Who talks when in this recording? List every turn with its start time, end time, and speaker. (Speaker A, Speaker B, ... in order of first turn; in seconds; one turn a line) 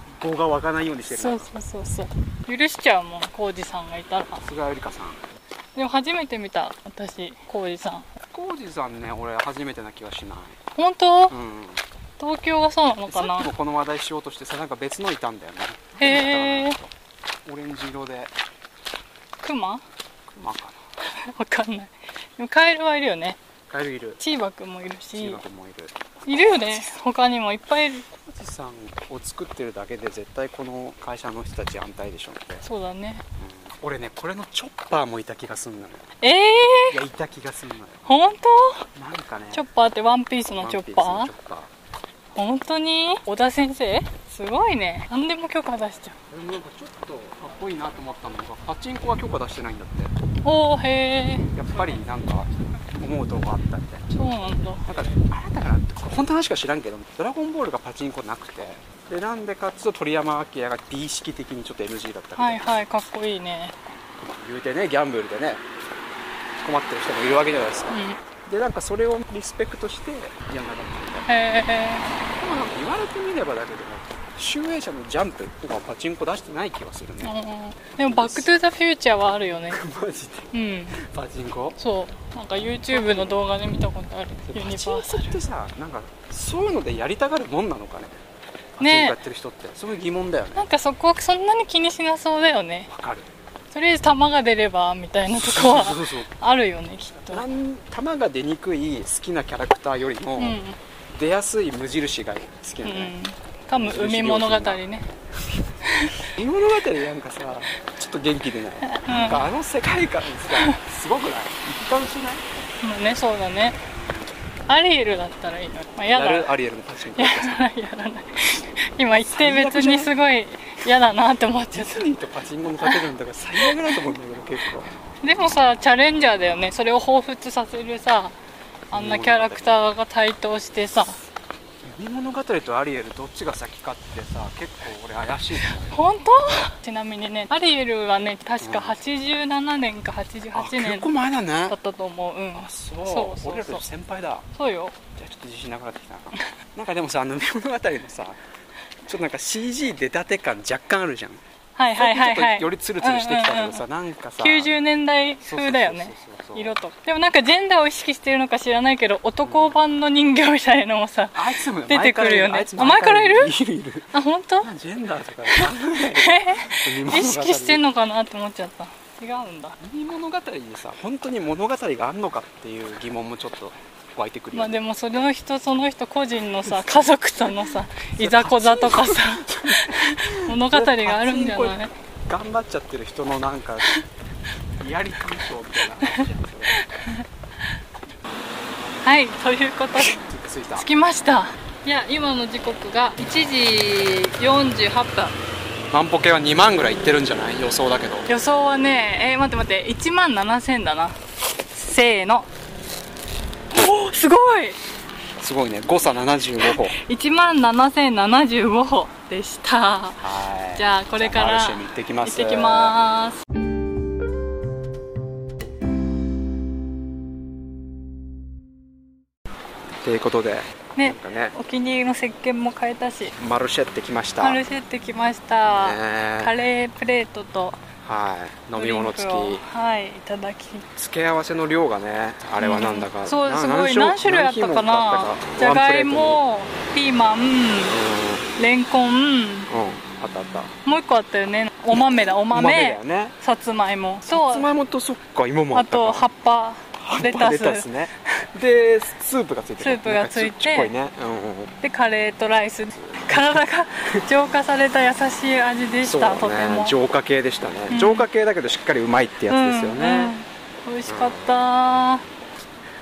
Speaker A: 0.1-1.5
Speaker B: 1.1-4.4
Speaker A: 4.4-5.2
Speaker B: 5.8-8.1
Speaker A: 8.3-10.6
Speaker B: 10.8-11.4
Speaker A: 11.3-11.8
Speaker B: 12.2-13.5
Speaker A: 13.1-16.9
Speaker B: 16.0-16.8
Speaker A: 17.5-18.3
Speaker B: 19.4-19.8
Speaker A: 20.3-20.8
Speaker B: 21.1-23.4
Speaker A: 23.7-24.2
Speaker B: 24.2-25.4
Speaker A: 25.1-25.9
Speaker B: 26.3-28.1
Speaker A: 28.2-32.6
Speaker B: 32.6-33.2
Speaker A: 33.4-36.1
Speaker B: 36.2-37.0
Speaker A: 36.9-38.1
Speaker B: 38.1-38.9
Speaker A: 39.0-39.6
Speaker B: 39.5-41.3
Speaker A: 40.6-41.7
Speaker B: 42.4-46.2
Speaker A: 46.3-50.1
Speaker B: 50.4-51.5
Speaker A: 51.5-54.1
Speaker B: 54.1-54.8
Speaker A: 54.9-62.8
Speaker B: 62.4-63.8
Speaker A: 64.2-65.6
Speaker A: 66.6-71.3
Speaker B: 67.9-68.2
Speaker B: 71.3-72.1
Speaker A: 72.4-77.3
Speaker B: 77.2-79.8
Speaker A: 78.0-78.5
Speaker A: 79.7-81.8
Speaker B: 80.5-81.0
Speaker B: 81.8-85.3
Speaker A: 82.9-83.4
Speaker A: 84.5-88.2
Speaker A: 88.8-90.7
Speaker B: 88.8-89.2
Speaker B: 90.6-92.9
Speaker A: 92.9-93.3
Speaker B: 93.7-97.5
Speaker A: 95.3-96.3
Speaker A: 97.3-103.1
Speaker B: 100.4-100.8
Speaker B: 102.8-105.1
Speaker A: 103.7-104.8
Speaker B: 105.9-106.2
Speaker A: 106.2-112.4
Speaker B: 108.8-109.5
Speaker B: 110.5-110.8
Speaker B: 112.8-113.8
Speaker B: 114.7-116.5
Speaker A: 116.1-117.6
Speaker B: 117.1-122.1
Speaker A: 119.3-120.1
Speaker A: 121.7-124.9
Speaker B: 123.6-124.0
Speaker B: 125.2-128.4
Speaker A: 128.9-129.8
Speaker B: 128.9-131.2
Speaker A: 131.8-136.0
Speaker B: 135.7-141.1
Speaker A: 138.6-139.0
Speaker A: 140.6-141.8
Speaker B: 141.7-143.8
Speaker A: 142.6-144.5
Speaker B: 144.5-145.0
Speaker A: 145.2-148.4
Speaker A: 149.1-151.4
Speaker B: 151.8-153.8
Speaker A: 152.0-154.7
Speaker B: 154.4-163.5
Speaker A: 155.4-156.8
Speaker A: 159.4-159.8
Speaker A: 161.3-167.8
Speaker B: 164.1-164.7
Speaker B: 165.5-169.8
Speaker A: 169.8-174.8
Speaker B: 174.5-181.9
Speaker A: 176.7-183.9
Speaker A: 184.8-186.8
Speaker B: 186.7-187.2
Speaker B: 189.0-190.2
Speaker A: 190.0-190.9
Speaker B: 190.8-195.3
Speaker A: 195.9-198.3
Speaker B: 198.3-201.2
Speaker B: 201.7-202.5
Speaker B: 203.7-204.8
Speaker A: 205.4-207.0
Speaker B: 206.6-213.4
Speaker A: 210.2-213.0
Speaker A: 220.0-221.6
Speaker B: 221.0-223.3
Speaker A: 223.3-224.6
Speaker B: 224.4-227.8
Speaker A: 225.7-226.6
Speaker A: 228.0-229.7
Speaker B: 228.8-230.9
Speaker A: 231.0-236.4
Speaker B: 232.6-238.0
Speaker A: 237.9-238.5
Speaker B: 238.6-239.7
Speaker A: 239.7-240.7
Speaker B: 240.8-244.7
Speaker A: 241.9-243.3
Speaker A: 244.3-246.3
Speaker B: 245.7-247.9
Speaker A: 247.0-251.7
Speaker B: 249.8-250.9
Speaker B: 251.8-256.9
Speaker A: 253.0-253.6
Speaker A: 256.0-260.3
Speaker B: 257.9-258.3
Speaker B: 259.5-262.2
Speaker A: 261.1-261.7